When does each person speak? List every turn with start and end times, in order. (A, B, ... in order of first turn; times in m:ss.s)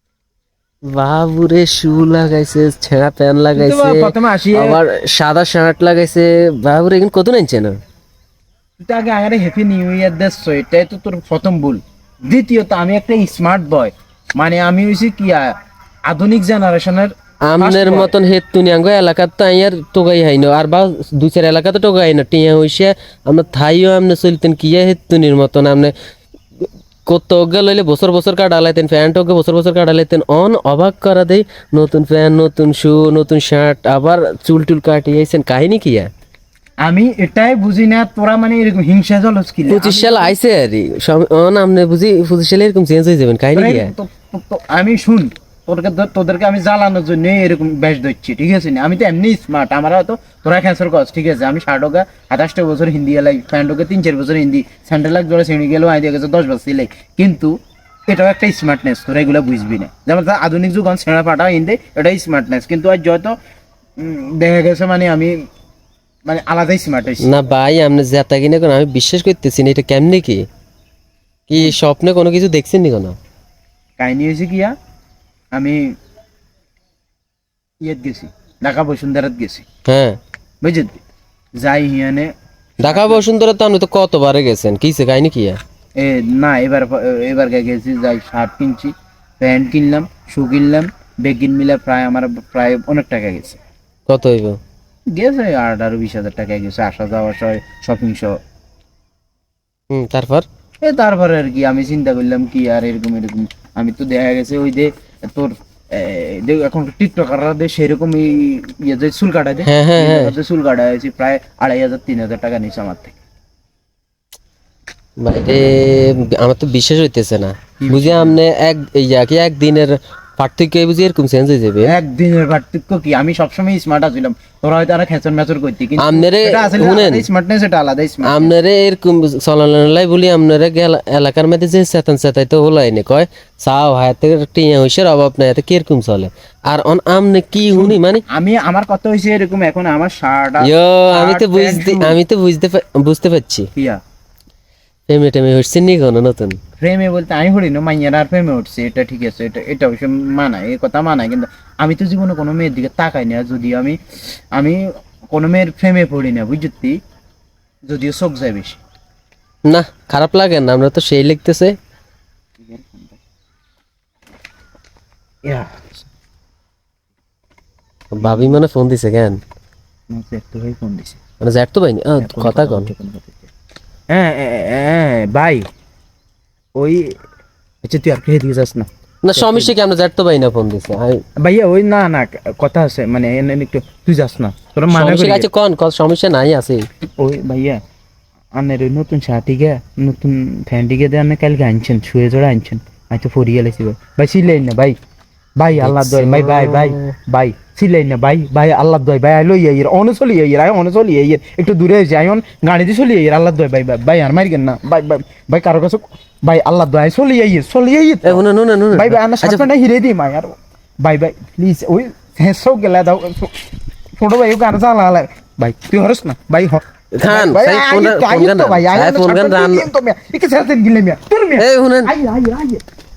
0:00.9-0:07.7 A
0:03.5-0:04.8 B
0:08.8-0:18.1 B
0:17.4-0:25.9 A
0:27.0-0:36.1 A
0:36.8-0:40.3 B
0:39.7-0:43.9 A
0:43.5-0:57.5 B
0:58.1-1:03.4 B
1:04.0-1:05.4 B
1:06.2-1:07.4 B
1:07.2-1:10.4 A
1:11.5-1:13.2 A
1:14.0-1:14.7 B
1:15.5-1:15.9 B
1:17.8-1:19.6 B
1:19.9-1:20.2 A
1:20.6-1:21.0 B
1:21.6-1:23.2 B
1:22.8-1:25.6 A
1:26.0-1:33.6 B
1:34.1-1:34.6 A
1:35.1-1:38.4 B
1:39.9-1:40.4 A
1:40.8-1:53.1 B
1:49.6-1:50.3 A
1:55.2-2:01.9 A
1:57.8-1:58.4 B
2:01.8-2:08.5 B
2:06.0-2:07.2 A
2:08.2-2:18.2 A
2:17.7-2:22.2 B
2:20.6-2:23.7 A
2:23.7-2:24.0 B
2:25.1-2:26.6 A
2:26.8-2:34.0 B
2:34.5-2:37.0 B
2:37.9-2:38.8 B
2:39.7-2:41.8 A
2:42.6-2:43.2 B
2:45.4-2:46.0 B
2:48.1-2:49.4 A
2:48.2-2:48.6 B
2:50.1-2:51.2 B
2:51.4-2:52.9 A
2:52.2-2:53.5 B
2:54.1-2:55.7 B
2:56.8-2:57.2 B
2:57.8-2:59.7 B
2:59.2-3:01.2 A
3:01.4-3:05.5 B
3:04.9-3:06.9 A
3:07.2-3:07.8 B
3:08.5-3:15.0 B
3:15.6-3:33.6 B
3:15.8-3:17.1 A
3:28.2-3:29.6 A
3:34.2-3:42.8 B
3:37.1-3:39.8 A
3:41.6-3:42.1 A